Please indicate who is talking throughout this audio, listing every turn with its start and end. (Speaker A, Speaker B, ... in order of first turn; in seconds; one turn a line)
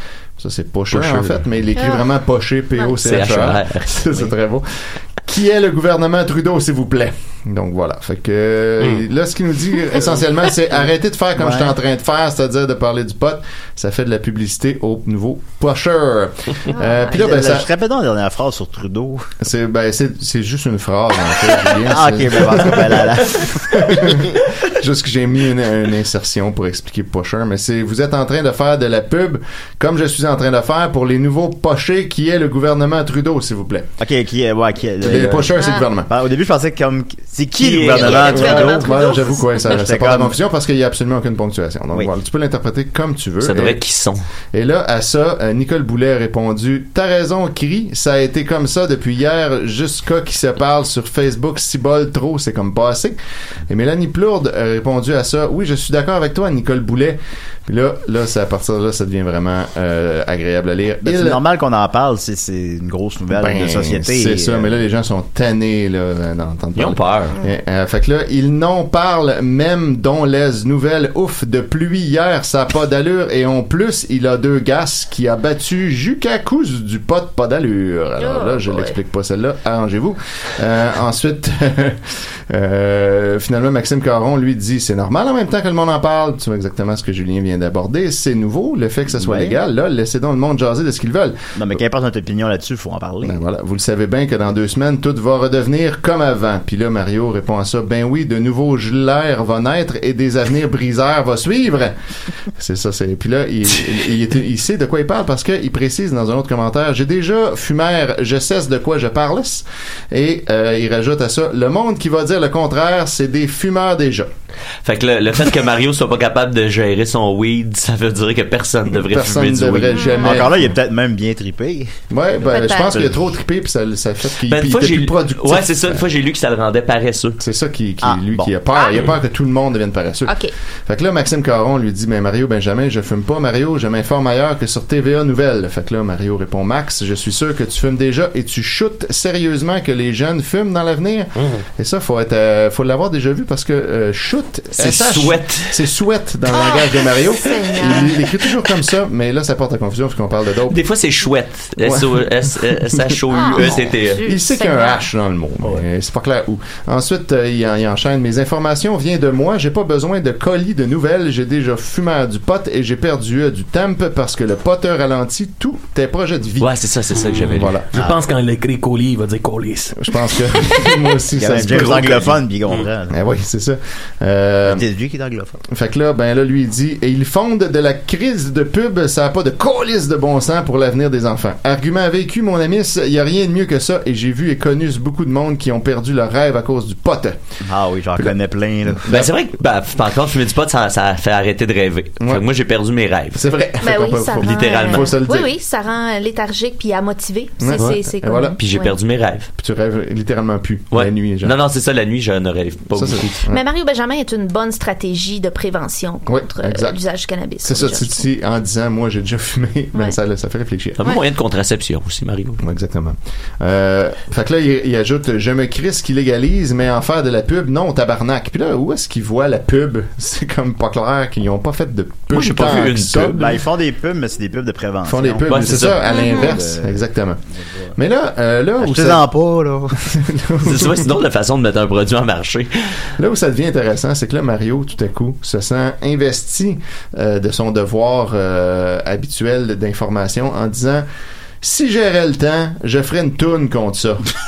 Speaker A: 0.4-17.7
Speaker B: 0.9-1.4
Speaker C: 1.7-2.0
Speaker B: 3.0-3.9
Speaker D: 11.3-11.8
Speaker C: 16.7-17.2
Speaker D: 17.0-19.3
Speaker A: 19.4-33.9
Speaker D: 21.9-24.3
Speaker D: 34.0-35.6
Speaker A: 35.0-36.1
Speaker C: 35.5-35.9
Speaker D: 36.1-39.0
Speaker B: 37.6-38.7
Speaker C: 38.0-39.5
Speaker A: 38.2-43.8
Speaker D: 39.6-40.4
Speaker B: 43.4-44.2
Speaker A: 44.5-61.4
Speaker D: 61.0-64.8
Speaker A: 63.3-91.5
Speaker B: 66.8-67.3
Speaker C: 78.2-79.0
Speaker D: 89.1-89.6
Speaker D: 91.5-93.4
Speaker A: 93.2-101.9
Speaker A: 102.5-114.3
Speaker B: 114.8-120.1
Speaker A: 119.0-120.7
Speaker C: 119.9-120.4
Speaker D: 120.2-122.0
Speaker A: 122.1-126.0
Speaker C: 122.4-123.0
Speaker D: 122.7-123.1
Speaker B: 124.5-127.4
Speaker A: 127.4-150.8
Speaker D: 128.0-128.5
Speaker C: 128.7-129.0
Speaker C: 130.3-130.5
Speaker B: 144.8-145.8
Speaker C: 146.5-148.1
Speaker B: 150.7-154.2
Speaker A: 151.8-152.2
Speaker C: 153.3-155.1
Speaker A: 153.4-166.7
Speaker B: 166.6-167.8
Speaker E: 167.1-169.9
Speaker A: 167.5-167.9
Speaker A: 169.9-172.3
Speaker D: 171.3-173.1
Speaker B: 171.7-172.3
Speaker A: 173.1-174.8
Speaker D: 174.7-175.6
Speaker A: 175.7-187.4
Speaker D: 187.6-189.0
Speaker A: 188.9-189.3
Speaker B: 189.1-193.4
Speaker A: 193.3-195.5
Speaker C: 193.8-198.9
Speaker B: 194.4-195.1
Speaker A: 197.6-198.6
Speaker B: 198.6-199.5
Speaker A: 199.6-201.6
Speaker B: 200.9-203.4
Speaker A: 202.9-203.6
Speaker C: 203.5-208.3
Speaker A: 206.3-207.0
Speaker A: 207.6-211.0
Speaker B: 211.0-212.6
Speaker A: 212.6-223.4
Speaker B: 222.3-223.5
Speaker D: 223.3-227.0
Speaker A: 225.1-227.4
Speaker B: 225.5-226.0
Speaker C: 226.1-226.5
Speaker A: 227.9-229.2
Speaker D: 228.8-230.2
Speaker A: 230.1-231.1
Speaker B: 230.6-232.7
Speaker A: 233.2-241.0
Speaker A: 241.6-244.3